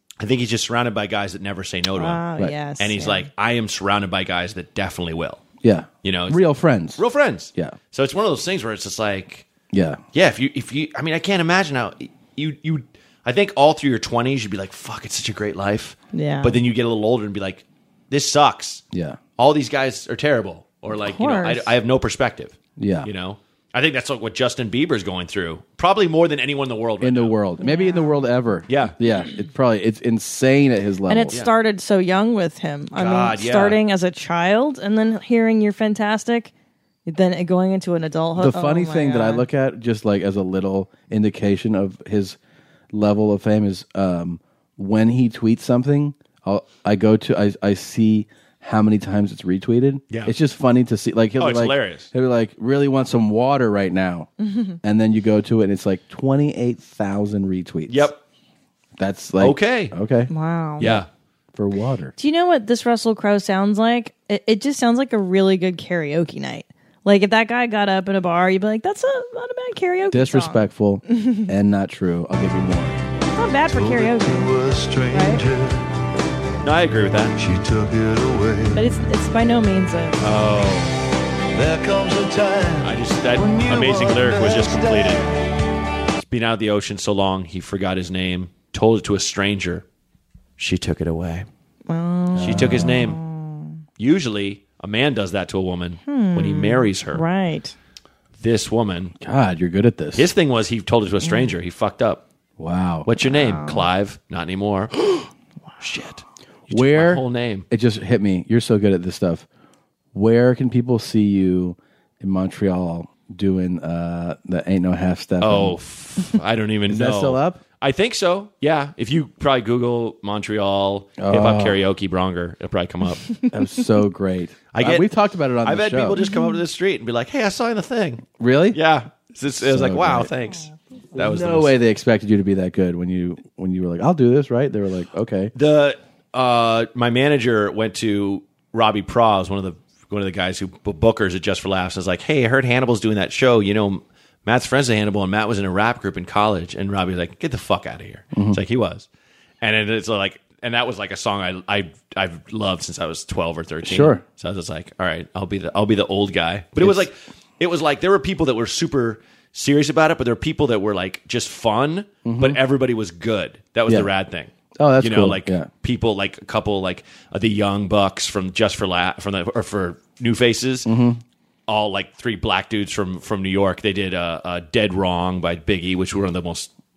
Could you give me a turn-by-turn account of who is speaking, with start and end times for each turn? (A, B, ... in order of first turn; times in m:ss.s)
0:00.2-0:02.2 A
0:02.0-0:03.3 B
0:02.8-0:05.4 A
0:05.6-0:07.0 C
0:06.0-0:09.5 A
0:09.7-0:10.0 C
0:10.1-0:18.8 A
0:16.1-0:16.6 B
0:18.9-0:19.2 C
0:19.4-0:27.4 A
0:20.9-0:21.7 B
0:22.8-0:23.1 C
0:27.0-0:31.4 C
0:27.6-0:28.2 B
0:28.7-0:28.9 A
0:31.0-0:36.5 B
0:33.0-0:33.8 A
0:37.0-0:39.5 B
0:38.4-0:42.4 C
0:42.9-0:54.3 C
0:51.4-0:52.1 A
0:54.4-0:54.8 B
0:54.8-0:58.1 C
0:57.9-0:58.2 A
0:59.0-1:02.1 C
0:59.4-0:59.9 A
1:00.3-1:00.9 B
1:00.8-1:01.1 A
1:02.2-1:11.5 B
1:10.1-1:13.0 C
1:13.3-1:14.5 B
1:13.7-1:15.8 D
1:15.1-1:15.4 B
1:16.6-1:17.4 A
1:17.4-1:19.0 D
1:18.7-1:20.2 B
1:20.2-1:20.9 A
1:21.5-1:25.3 D
1:22.8-1:25.2 A
1:26.2-1:29.8 A
1:30.6-1:31.5 A
1:31.9-1:33.8 B
1:32.3-1:33.0 C
1:32.4-1:33.2 A
1:34.0-1:37.2 A
1:36.0-1:37.7 B
1:38.4-1:39.1 A
1:39.2-1:40.3 C
1:40.1-1:42.2 A
1:41.2-1:41.5 B
1:42.6-1:43.1 C
1:43.0-1:45.3 A
1:43.2-1:43.9 B
1:45.8-1:47.6 A
1:46.7-1:49.4 C
1:50.1-1:55.8 C
1:55.4-2:03.3 A
1:56.9-1:57.6 C
2:01.2-2:01.8 C
2:03.5-2:06.2 C
2:04.7-2:05.1 A
2:05.6-2:11.8 A
2:06.2-2:06.6 B
2:08.4-2:08.8 C
2:09.6-2:10.3 C
2:11.2-2:15.5 C
2:15.5-2:29.0 A
2:28.3-2:28.6 C
2:29.6-2:50.9 A
2:33.8-2:34.2 C
2:36.8-2:37.1 C
2:42.2-2:42.6 C
2:44.8-2:45.7 C
2:50.8-2:51.2 C
2:51.7-2:56.7 A